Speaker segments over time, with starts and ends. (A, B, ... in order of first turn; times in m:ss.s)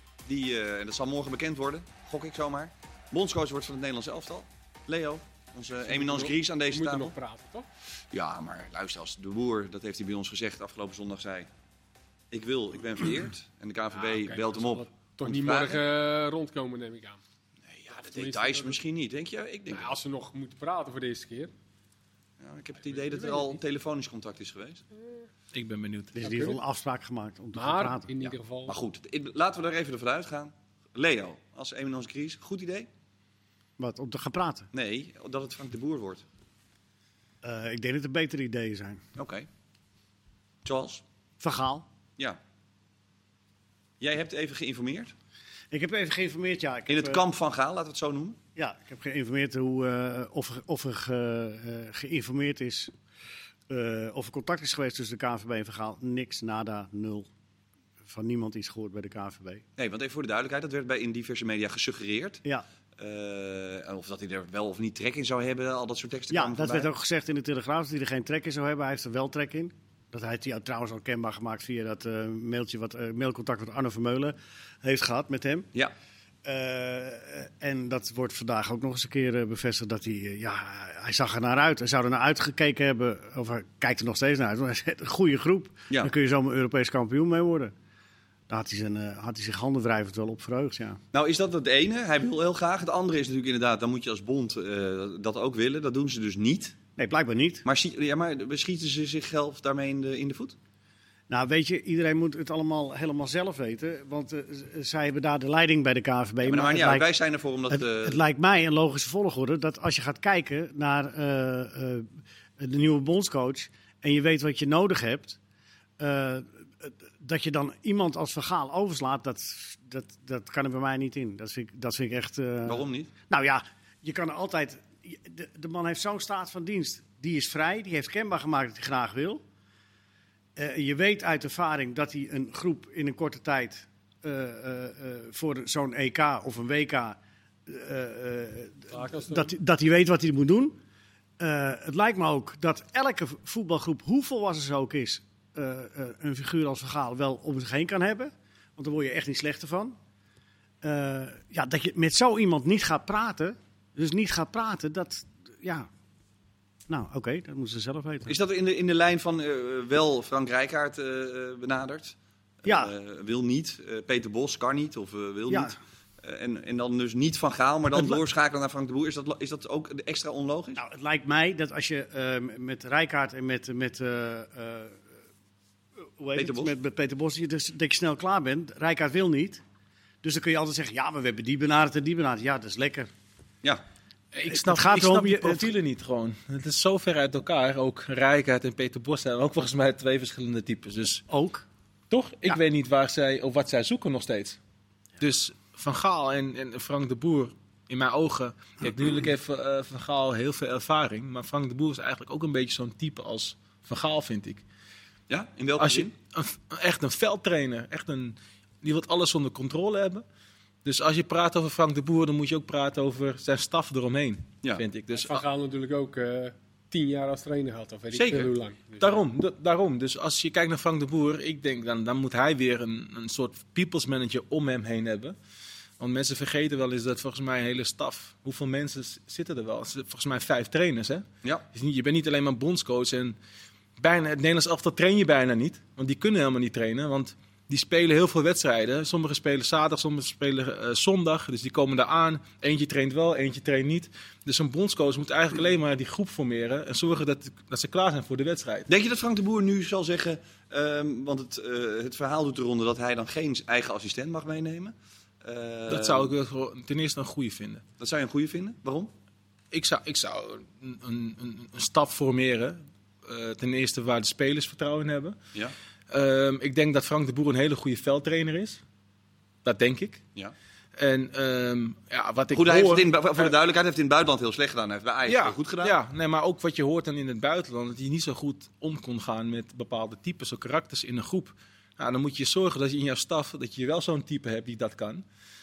0:00.2-0:07.1 A
0:05.9-0:07.7 B
0:08.1-0:11.5 A
0:12.3-0:15.8 A
0:13.9-0:17.2 B
0:17.6-0:20.0 A
0:17.9-0:18.8 B
0:19.7-0:21.5 B
0:22.4-0:24.8 A
0:22.9-0:23.6 B
0:25.5-0:26.4 C
0:26.1-0:28.1 D
0:26.2-0:26.6 B
0:27.6-0:28.8 B
0:28.2-0:32.9 A
0:33.8-0:34.7 D
0:34.7-0:36.2 A
0:37.4-0:39.0 D
0:39.2-0:39.5 A
0:40.6-0:41.0 A
0:41.4-0:41.9 D
0:44.0-0:45.1 A
0:45.7-0:47.2 D
0:46.9-0:48.4 A
0:48.6-0:52.9 D
0:53.7-0:57.3 D
0:58.0-0:59.6 D
0:59.8-1:02.4 A
1:03.0-1:06.9 A
1:06.3-1:15.7 D
1:16.4-1:27.7 D
1:28.5-1:31.0 D
1:31.1-1:36.8 A
1:37.0-1:37.6 D
1:37.6-1:40.6 A
1:41.3-1:47.1 D
1:46.4-1:48.2 A
1:47.7-1:55.4 D
1:56.0-2:09.4 D
2:02.6-2:03.1 A
2:10.6-2:20.8 D
2:18.9-2:19.5 B
2:21.4-2:30.0 D
2:30.8-2:35.9 D
2:36.9-2:38.4 D
2:38.3-2:50.8 A
2:42.6-2:42.9 D
2:45.5-2:45.7 D
2:47.9-2:48.2 D
2:50.8-2:55.1 D
2:56.2-2:59.6 D
2:56.3-2:56.7 A
3:00.2-3:03.1 D
3:04.3-3:11.2 C
3:04.5-3:05.7 D
3:11.3-3:11.6 D
3:12.1-3:14.6 C
3:15.2-3:24.6 C
3:25.3-3:26.1 A
3:25.8-3:30.2 C
3:30.8-3:35.4 C
3:35.1-3:39.2 B
3:38.1-3:45.4 C
3:46.0-3:53.4 C
3:54.0-4:08.9 C
4:08.9-4:16.3 A
4:15.9-4:17.8 C
4:18.0-4:19.1 A
4:19.7-4:25.4 C
4:26.1-4:28.8 C
4:29.6-4:30.2 C
4:31.0-4:33.5 C
4:32.5-4:36.0 A
4:35.3-4:45.2 C